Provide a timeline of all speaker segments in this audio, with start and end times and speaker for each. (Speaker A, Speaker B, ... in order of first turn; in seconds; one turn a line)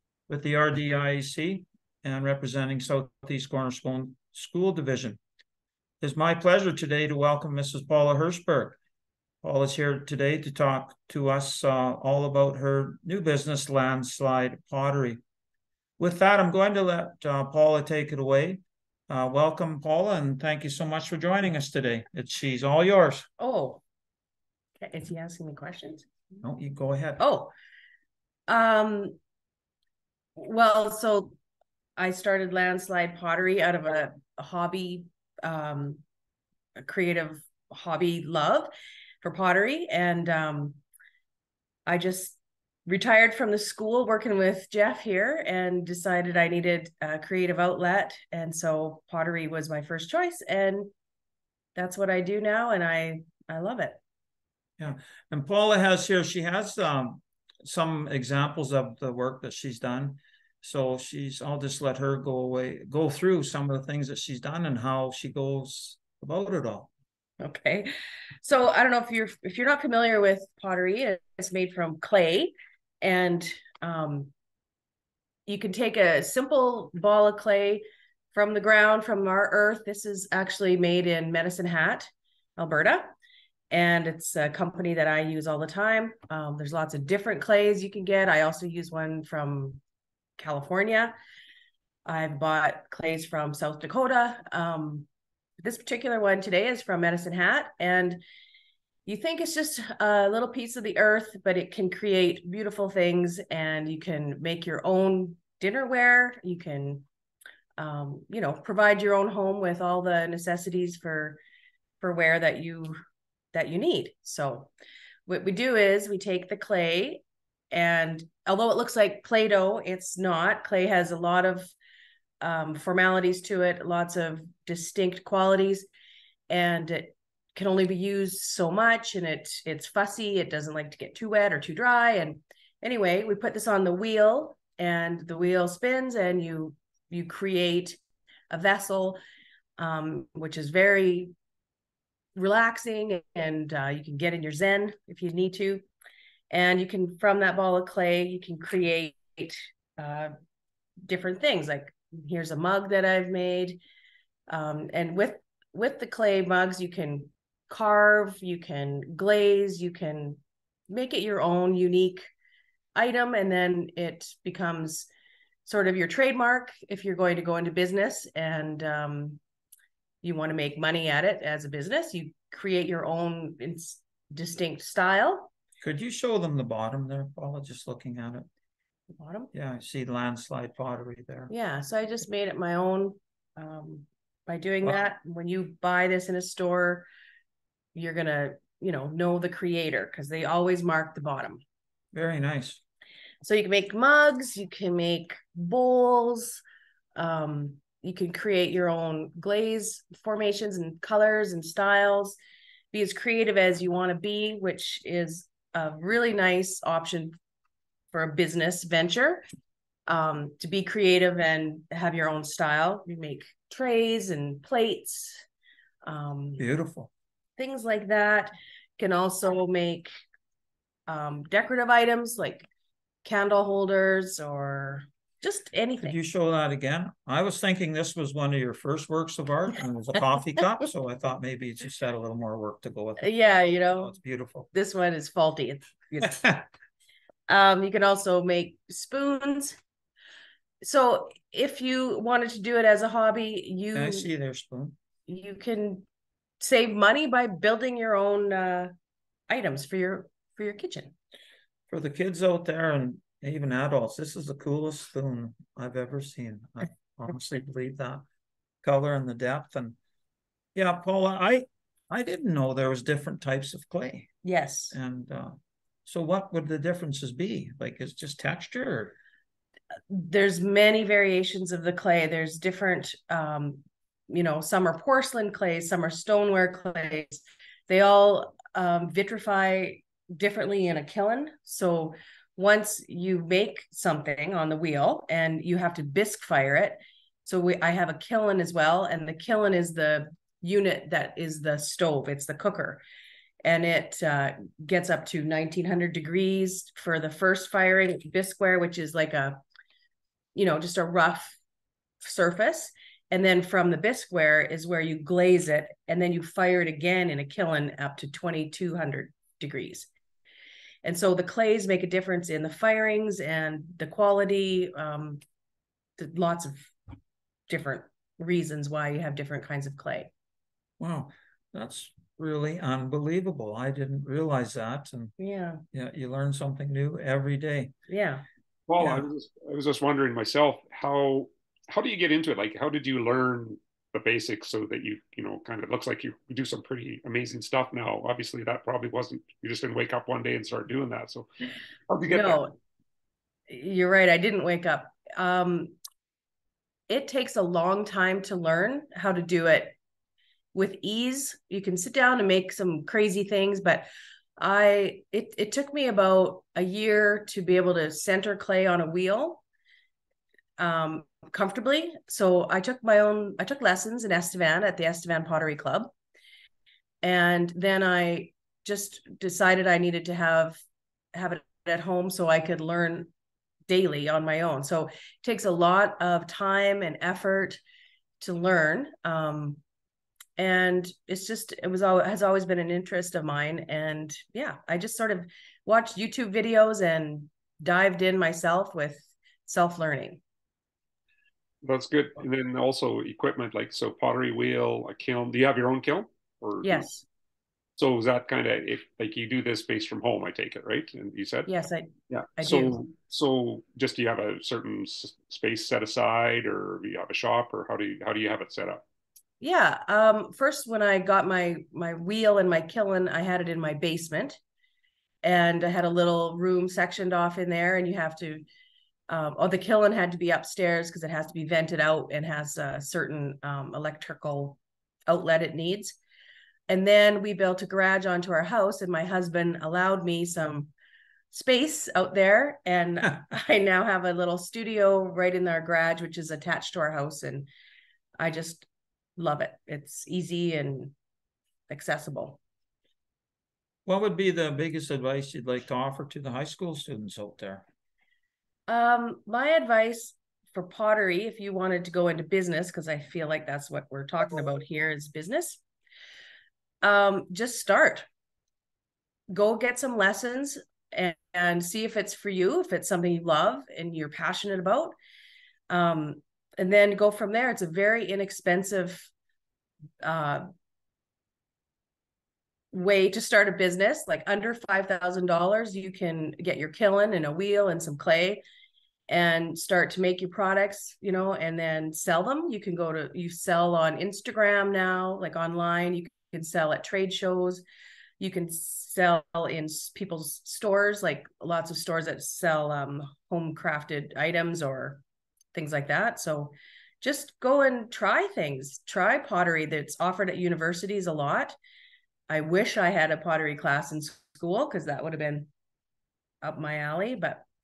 Speaker A: 0.3-5.2
Speaker A: 6.0-8.8
Speaker A: 9.4-15.2
Speaker A: 16.0-23.3
Speaker B: 23.4-23.8
Speaker B: 24.8-26.1
Speaker A: 26.4-27.2
Speaker B: 27.2-27.5
Speaker B: 28.5-29.2
Speaker B: 30.4-31.4
Speaker B: 32.0-36.0
Speaker B: 36.8-38.7
Speaker B: 39.2-40.8
Speaker B: 41.9-50.9
Speaker B: 51.8-54.0
Speaker A: 54.8-66.9
Speaker B: 67.4-67.9
Speaker B: 68.4-74.3
Speaker B: 75.5-83.1
Speaker B: 83.7-89.8
Speaker B: 90.4-91.1
Speaker B: 92.0-95.1
Speaker B: 95.6-98.2
Speaker B: 99.1-107.0
Speaker B: 107.8-111.4
Speaker B: 112.0-113.0
Speaker B: 113.5-114.7
Speaker B: 115.3-121.7
Speaker B: 122.4-125.9
Speaker B: 126.5-138.0
Speaker B: 138.5-139.2
Speaker B: 139.8-141.3
Speaker B: 142.4-145.8
Speaker B: 146.5-150.3
Speaker B: 151.0-153.8
Speaker B: 154.5-162.3
Speaker B: 162.9-165.1
Speaker B: 165.7-169.4
Speaker B: 170.2-175.5
Speaker A: 175.8-178.5
Speaker B: 179.1-179.5
Speaker A: 179.5-181.5
Speaker B: 181.5-187.1
Speaker B: 187.9-191.6
Speaker A: 192.1-192.8
Speaker B: 193.4-196.6
Speaker B: 197.2-202.4
Speaker B: 202.9-207.4
Speaker B: 208.1-209.4
Speaker B: 210.1-215.5
Speaker B: 216.0-216.6
Speaker A: 216.6-217.1
Speaker B: 217.6-220.1
Speaker B: 221.1-222.7
Speaker B: 223.2-226.2
Speaker A: 226.0-234.7
Speaker B: 233.2-234.1
Speaker B: 234.7-236.4
Speaker A: 236.2-236.6
Speaker B: 237.5-239.8
Speaker B: 240.8-244.3
Speaker A: 243.9-244.9
Speaker B: 245.3-246.1
Speaker B: 246.6-248.9
Speaker B: 249.5-251.2
Speaker A: 251.9-258.2
Speaker A: 258.8-260.0
Speaker A: 260.8-264.3
Speaker B: 264.4-265.0
Speaker A: 264.9-269.1
Speaker B: 270.1-293.0
Speaker B: 293.6-299.6
Speaker B: 300.6-301.6
Speaker B: 302.2-310.1
Speaker B: 311.0-315.4
Speaker B: 316.2-316.9
Speaker B: 317.7-320.3
Speaker A: 321.0-325.3
Speaker B: 325.4-325.8
Speaker A: 325.9-327.9
Speaker B: 328.1-328.4
Speaker C: 328.9-342.6
Speaker A: 329.0-329.3
Speaker B: 342.3-342.8
Speaker B: 343.7-345.9
Speaker B: 347.1-350.0
Speaker B: 350.7-359.6
Speaker B: 360.8-366.1
Speaker B: 367.2-370.8
Speaker B: 371.3-373.3
Speaker B: 373.9-377.8
Speaker B: 378.4-379.8
Speaker B: 380.6-390.4
Speaker C: 391.8-397.1
Speaker B: 396.8-397.2
Speaker C: 398.0-401.7
Speaker B: 401.7-403.0
Speaker C: 402.3-409.0
Speaker B: 409.6-414.6
Speaker B: 415.4-418.6
Speaker B: 419.3-426.2
Speaker B: 426.9-430.9
Speaker B: 431.5-437.7
Speaker B: 438.4-441.1
Speaker B: 441.9-442.6
Speaker A: 444.1-447.9
Speaker B: 448.9-455.8
Speaker B: 457.0-458.3
Speaker B: 459.5-465.1
Speaker B: 465.9-469.3
Speaker B: 470.2-470.7
Speaker B: 472.9-478.6
Speaker B: 479.3-487.8
Speaker B: 488.4-495.2
Speaker B: 495.7-501.8
Speaker B: 502.5-505.7
Speaker B: 506.6-507.6